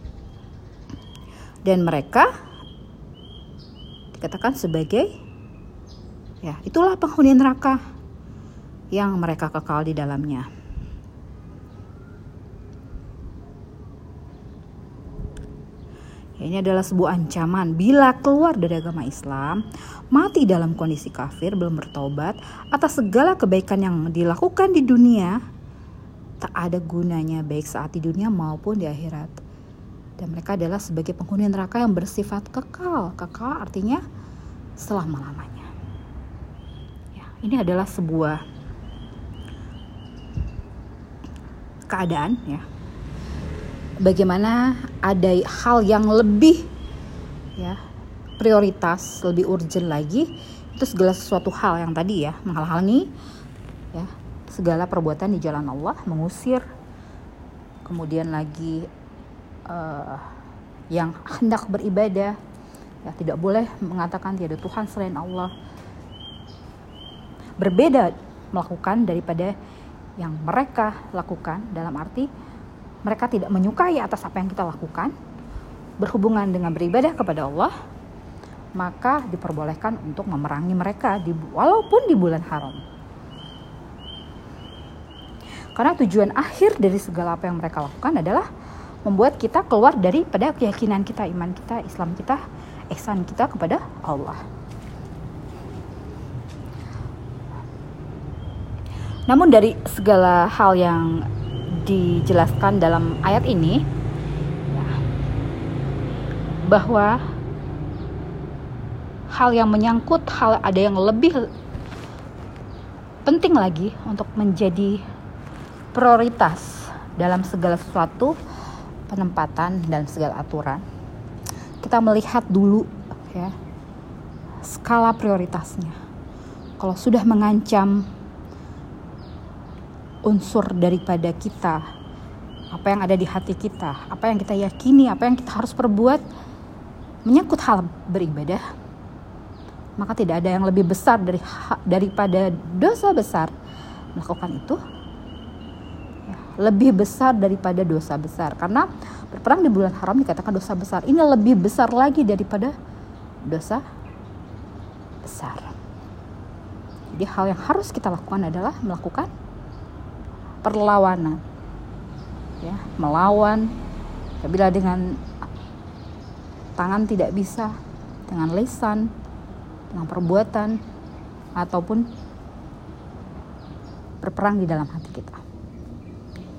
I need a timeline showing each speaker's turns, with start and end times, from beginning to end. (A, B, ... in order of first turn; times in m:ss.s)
0:01.6-0:02.3 A
0:04.1-0:05.1 A
0:06.4-0:07.8 A
0:08.9-0:10.5 A
0:16.4-0:25.4 A
0:26.4-0:29.4 A
0:30.2-0:34.0 A
0:34.8-0:35.7 A
0:37.1-0:38.4 A
0:41.9-0:42.6 A
0:44.0-0:46.7 A
0:48.4-0:53.1 A
0:53.9-0:56.6 A
0:57.8-0:58.9 A
0:59.7-1:00.3 A
1:00.9-1:02.4 A
1:03.0-1:05.5 A
1:07.6-1:09.5 A
1:10.2-1:12.3 A
1:13.0-1:15.1 A
1:16.0-1:17.7 A
1:18.8-1:22.8 A
1:25.8-1:28.4 A
1:29.0-1:32.4 A
1:32.9-1:34.4 A
1:39.3-1:41.2 A
1:41.8-1:43.8 A
1:44.7-1:45.0 A
1:46.6-1:47.2 A
1:49.3-1:51.4 A
1:53.2-1:55.0 A
1:55.9-1:58.4 A
1:59.1-2:00.8 A
2:01.8-2:03.5 A
2:04.6-2:06.0 A
2:06.8-2:08.0 A
2:10.2-2:11.8 A
2:12.7-2:16.2 A
2:17.2-2:18.6 A
2:20.0-2:23.5 A
2:24.1-2:24.8 A
2:26.2-2:32.7 A
2:33.4-2:33.8 A
2:35.2-2:35.7 A
2:37.1-2:39.3 A
2:40.6-2:41.4 A
2:42.6-2:43.7 A
2:44.4-2:45.2 A
2:46.8-2:47.7 A
2:48.3-2:49.1 A
2:49.9-2:50.8 A
2:51.6-2:52.0 A
2:54.2-2:55.4 A